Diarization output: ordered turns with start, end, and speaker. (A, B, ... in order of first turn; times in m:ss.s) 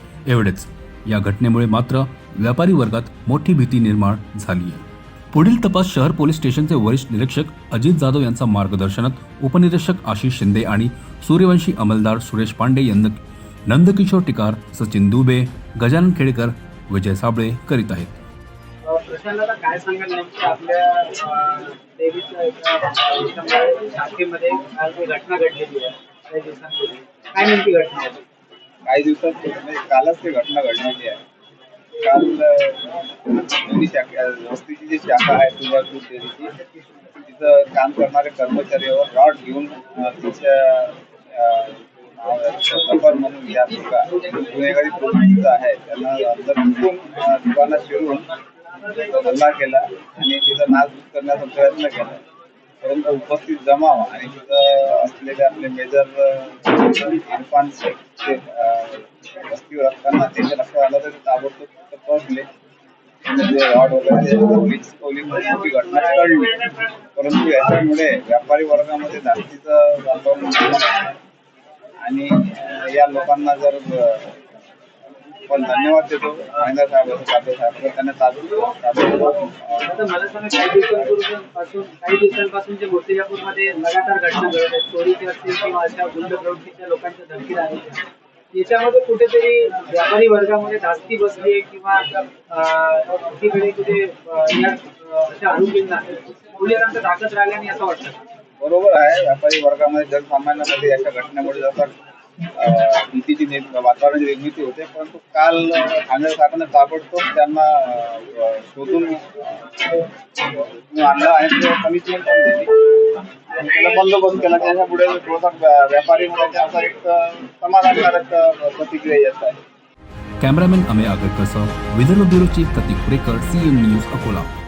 0:00.3-0:18.1 A
0:18.8-0:28.2 B
0:28.9-0:31.2 C
0:32.0-0:36.5 C
0:37.2-0:48.3 C
0:48.9-0:52.2 C
0:52.8-1:02.5 C
1:03.2-1:11.1 C
1:12.0-1:14.4 C
1:15.4-1:19.9 C
1:19.8-1:38.2 B
1:38.6-1:42.0 C
1:42.6-1:52.7 C
1:53.5-1:59.6 C
2:00.4-2:04.5 A